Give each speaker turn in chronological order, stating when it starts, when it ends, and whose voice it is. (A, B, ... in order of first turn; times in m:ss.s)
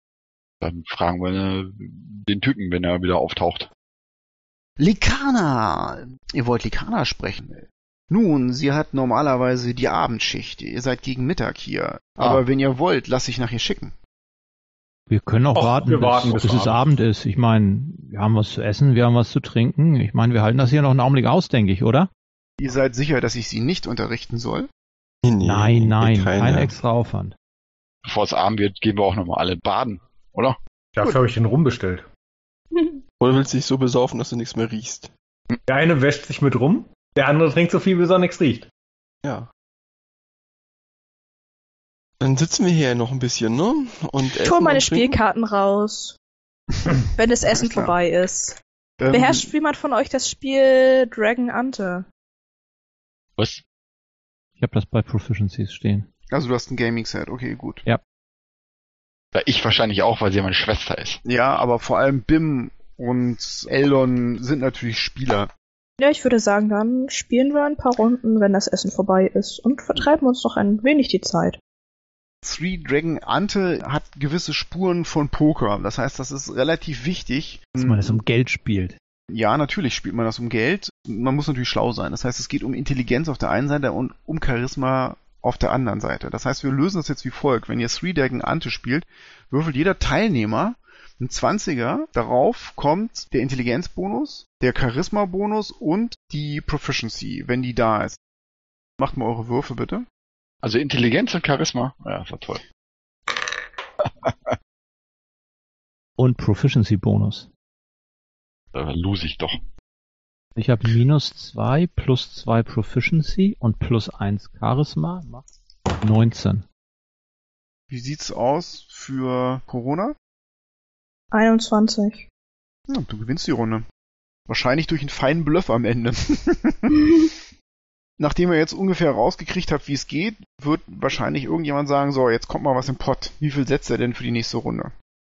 0:00.6-0:03.7 A
0:04.8-0:13.9 B
0:15.1-0:22.1 C
0:15.5-0:16.9 D
0:22.6-0:24.7 B
0:25.2-0:26.7 E
0:25.4-0:27.4 C
0:28.0-0:30.6 A
0:31.0-0:32.1 D
0:32.7-0:33.0 F
0:33.2-0:35.1 E
0:35.7-0:38.7 D
0:39.2-0:39.5 E
0:42.2-0:45.2 E
0:44.2-0:46.2 F
0:47.2-0:48.6 F
0:47.5-0:47.9 B
0:49.0-0:49.5 B
0:49.1-0:52.1 F
0:54.6-0:56.1 C
0:56.3-0:57.8 B
0:59.4-1:01.2 A
1:01.2-1:05.5 B
1:06.0-1:11.6 F
1:12.4-1:18.2 B
1:17.8-1:19.0 C
1:19.3-1:38.2 B
1:39.0-1:40.1 B
1:40.6-1:42.6 A
1:44.0-1:44.4 A
1:46.2-1:47.5 C
1:48.7-1:49.6 A
1:50.6-1:55.4 C
1:56.0-1:56.6 C
1:57.9-2:00.2 B
2:01.3-2:02.3 F
2:02.9-2:03.8 B
2:04.5-2:07.1 B
2:08.2-2:14.9 B